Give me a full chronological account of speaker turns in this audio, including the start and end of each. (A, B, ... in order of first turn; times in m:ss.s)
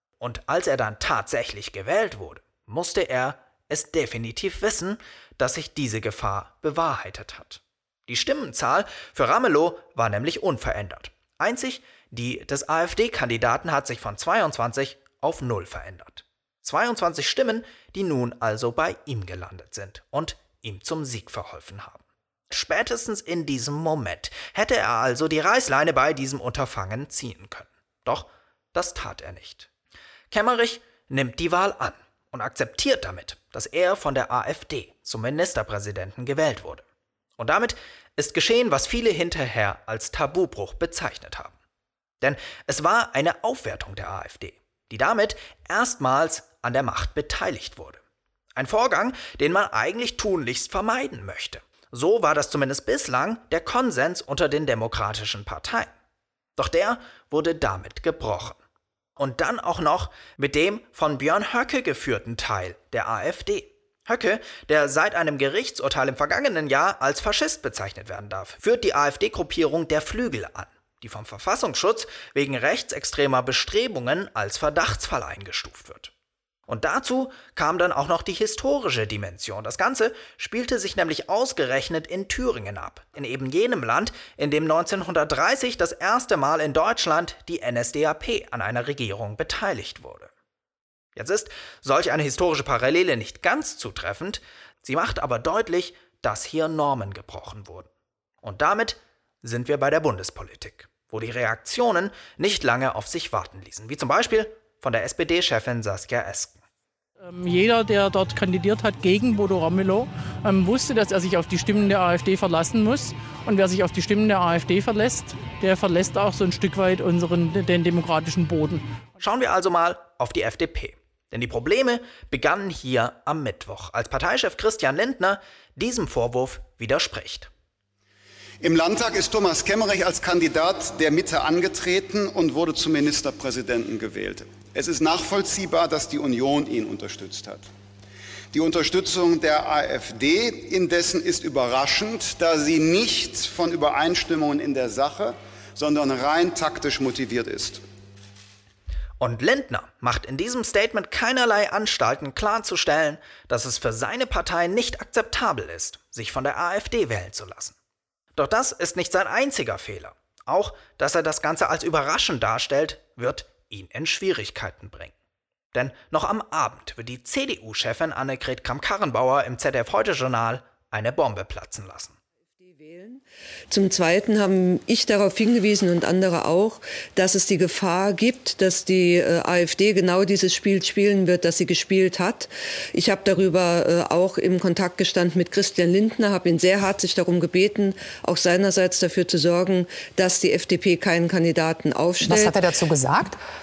0:00.2-0:29.7 A
0:30.3-0:36.8 A
0:37.4-0:41.6 A
0:42.2-0:48.0 A
0:48.5-0:55.9 A
0:56.6-0:58.6 A
0:59.2-1:16.1 A
1:16.7-1:30.3 A
1:31.2-1:37.9 A
1:38.4-1:46.6 A
1:47.3-1:58.8 B
1:48.3-1:49.2 C
1:53.5-1:53.8 C
1:55.3-1:55.8 C
1:59.2-2:07.5 A
2:08.6-2:17.7 D
2:18.5-2:27.8 D
2:29.2-2:37.8 A
2:38.3-2:45.1 A
2:45.7-2:52.2 A
2:52.6-3:12.6 E
3:12.2-3:13.4 C